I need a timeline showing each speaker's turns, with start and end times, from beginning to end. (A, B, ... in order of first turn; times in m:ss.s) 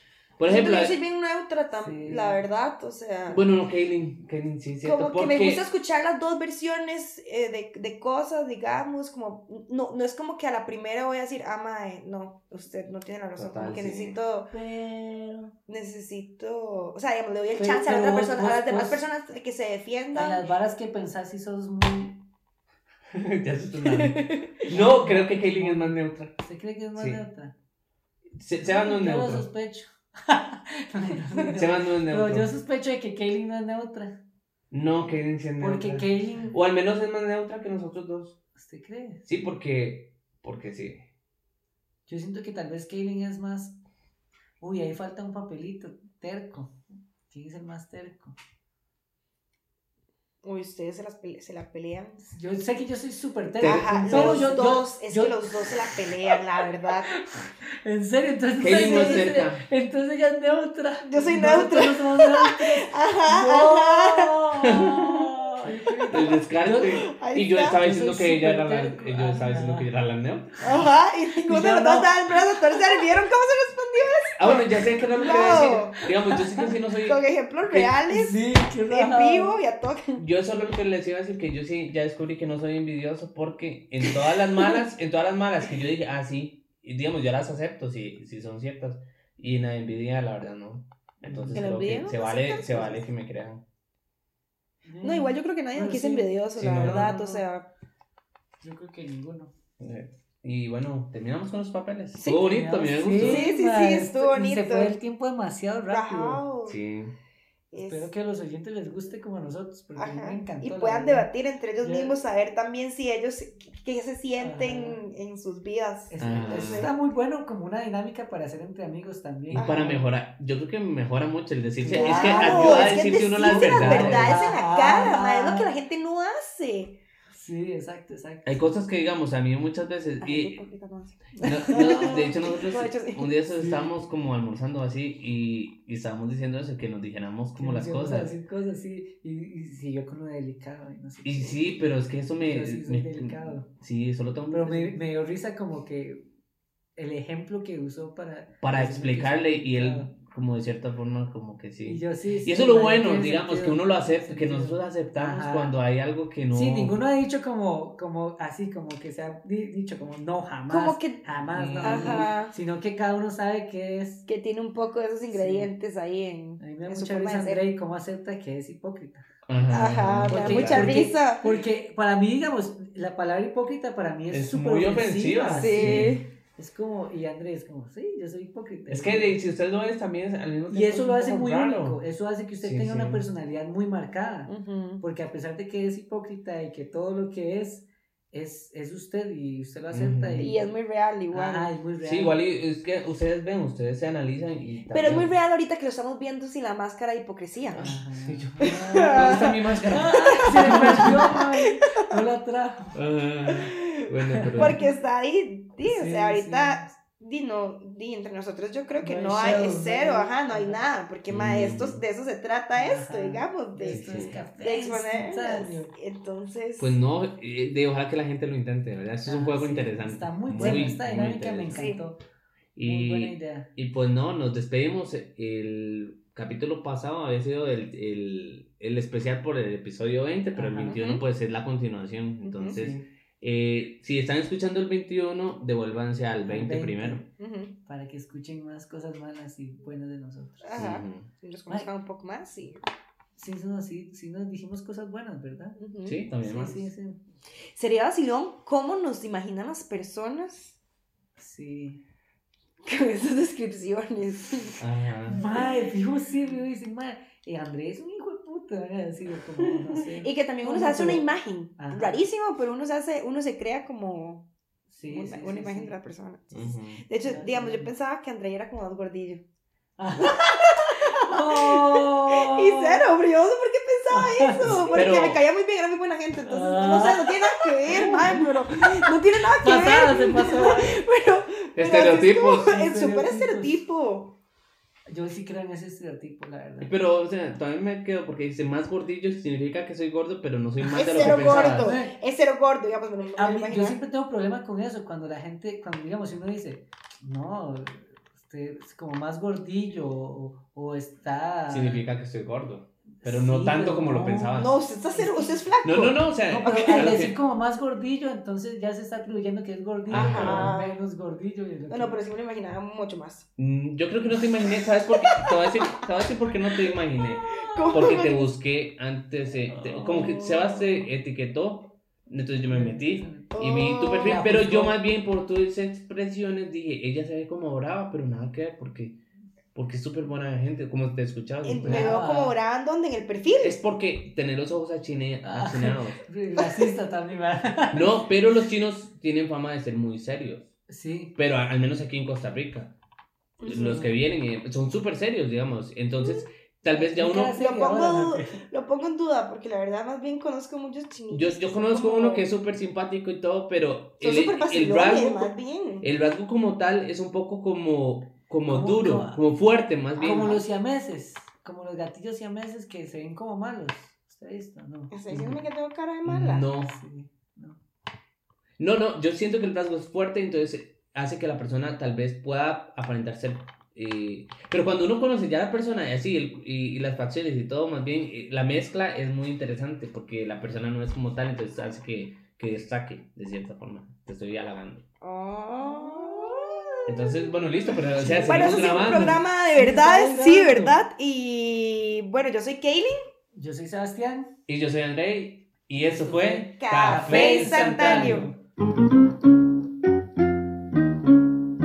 0:00.4-0:01.0 A
0:00.4-0:03.5 B
0:01.8-0:02.4 C
0:03.3-0:05.6 A
0:04.8-0:14.5 B
0:13.4-0:14.2 A
0:14.5-0:15.5 C
0:15.7-0:20.4 B
0:17.6-0:19.0 C
0:20.1-0:22.2 C
0:23.1-0:26.3 A
0:23.9-0:24.6 B
0:24.7-0:27.5 C
0:28.4-0:29.5 A
0:28.6-0:34.2 C
0:31.5-0:32.5 A
0:34.7-0:38.4 A
0:35.6-0:36.6 C
0:38.6-0:39.2 C
0:39.3-0:41.0 A
0:42.1-0:43.8 C
0:44.6-0:46.8 C
0:47.3-0:48.4 C
0:50.4-0:52.2 B
0:52.2-1:07.0 C
0:53.6-0:54.6 A
0:53.6-0:57.1 B
0:58.6-0:59.6 A
0:58.7-0:59.3 B
1:01.0-1:04.8 B
1:04.6-1:05.1 A
1:05.9-1:07.8 B
1:06.1-1:10.6 A
1:07.7-1:09.9 C
1:10.6-1:16.0 B
1:11.4-1:13.0 C
1:14.4-1:17.2 A
1:15.2-1:16.7 C
1:17.0-1:20.2 B
1:18.0-1:19.6 C
1:20.2-1:33.6 A
1:31.2-1:31.7 C
1:31.6-1:33.0 B
1:34.8-1:37.5 C
1:35.0-1:37.7 B
1:36.6-1:37.1 A
1:38.6-1:39.5 C
1:39.8-1:43.5 A
1:42.2-1:42.5 B
1:42.2-1:46.4 C
1:43.2-1:45.0 B
1:45.9-1:46.8 B
1:46.7-1:47.1 A
1:47.7-1:48.1 B
1:47.8-1:51.3 C
1:50.0-1:56.9 B
1:51.8-1:52.2 C
1:54.4-1:55.0 C
1:56.1-2:00.0 C
1:56.2-1:56.9 A
1:59.5-2:04.4 A
1:59.5-2:00.0 B
2:01.8-2:05.7 C
2:01.9-2:07.0 B
2:07.3-2:08.7 C
2:08.4-2:10.6 A
2:10.2-2:13.3 B
2:11.4-2:12.5 C
2:11.4-2:18.3 A
2:13.5-2:13.9 C
2:17.6-2:21.9 C
2:21.2-2:25.0 A
2:22.4-2:23.7 C
2:24.5-2:26.3 C
2:27.0-2:30.1 C
2:28.6-2:37.0 A
2:31.8-2:35.8 C
2:36.5-2:44.2 C
2:40.7-2:41.2 B
2:41.5-2:42.3 A
2:41.8-2:42.5 B
2:44.3-2:47.6 B
2:45.3-2:45.7 C
2:46.6-2:49.3 C
2:49.5-2:51.1 A
2:49.7-2:51.4 B
2:50.3-2:59.4 C
2:54.3-2:56.2 A
2:55.5-2:56.3 B
2:58.9-3:02.0 A
3:00.7-3:10.7 C
3:02.6-3:03.2 A
3:04.5-3:05.0 B
3:09.9-3:10.5 A
3:10.4-3:11.7 B
3:11.3-3:12.4 C
3:12.0-3:15.3 A
3:14.9-3:17.9 B
3:17.7-3:23.0 C
3:17.8-3:21.3 A
3:18.6-3:22.2 B
3:22.9-3:24.8 A
3:23.5-3:37.0 B
3:24.3-3:24.9 C
3:25.8-3:26.9 C
3:29.0-3:30.8 C
3:31.3-3:32.0 A
3:32.7-3:35.9 C
3:33.9-3:34.4 A
3:36.8-3:41.8 A
3:39.2-3:42.2 C
3:40.6-3:40.9 B
3:41.7-3:42.0 B
3:42.8-3:57.2 A
3:42.8-3:43.7 C
3:50.6-3:51.0 C
3:50.9-3:51.2 B
3:52.4-3:52.8 B
3:52.7-3:53.0 C
3:56.4-3:57.3 C
3:57.4-3:57.7 B
3:57.9-4:00.7 C
4:00.6-4:02.8 B
4:00.7-4:01.3 A
4:03.4-4:07.2 C
4:05.8-4:06.2 B
4:06.0-4:06.9 A
4:07.7-4:10.8 B
4:11.4-4:12.0 C
4:12.8-4:14.8 B
4:14.8-4:15.4 A
4:15.3-4:22.2 C
4:19.6-4:24.5 B
4:24.9-4:26.0 C
4:25.0-4:29.4 B
4:26.5-4:27.0 A
4:27.2-4:27.9 C
4:30.0-4:33.1 C
4:30.2-4:44.4 B
4:34.1-4:35.1 C
4:34.6-4:35.4 A
4:36.4-4:41.0 C
4:41.8-4:42.7 A
4:42.6-4:43.8 C
4:45.1-4:46.9 C
4:46.8-4:52.0 A
4:50.8-4:52.1 C
4:50.9-4:54.0 B
4:53.4-5:02.1 C
5:01.7-5:04.8 A
5:03.2-5:05.7 C
5:04.6-5:07.2 B
5:05.8-5:07.4 A
5:06.5-5:12.2 C
5:10.1-5:11.0 B
5:10.1-5:10.8 A
5:11.9-5:13.5 B
5:13.6-5:29.2 A
5:15.1-5:15.9 B
5:17.4-5:18.5 B
5:19.7-5:20.5 C
5:20.1-5:21.0 B
5:22.7-5:23.6 C
5:23.5-5:24.4 B
5:24.2-5:25.0 C
5:29.7-5:32.2 A
5:31.6-5:33.8 B
5:31.8-5:32.6 C
5:33.6-5:36.2 A
5:35.4-5:38.2 C
5:37.9-5:40.8 A
5:40.9-5:41.4 C
5:41.4-5:43.0 A
5:43.6-5:44.0 B
5:43.6-5:47.6 A
5:43.7-5:44.1 C
5:47.0-5:48.6 C
5:47.4-5:52.5 B
5:51.3-6:00.6 A
5:54.2-5:56.0 B
5:58.7-5:59.4 C
6:00.2-6:05.6 C
6:05.1-6:06.7 B
6:06.3-6:07.0 A
6:06.7-6:07.8 C
6:08.8-6:25.0 A
6:25.2-6:27.5 B
6:25.8-6:26.7 C
6:27.0-6:29.4 A
6:28.1-6:31.0 C
6:28.3-6:33.2 B
6:33.5-6:34.5 C
6:34.7-6:38.5 A
6:36.0-6:38.6 C
6:36.8-6:38.5 B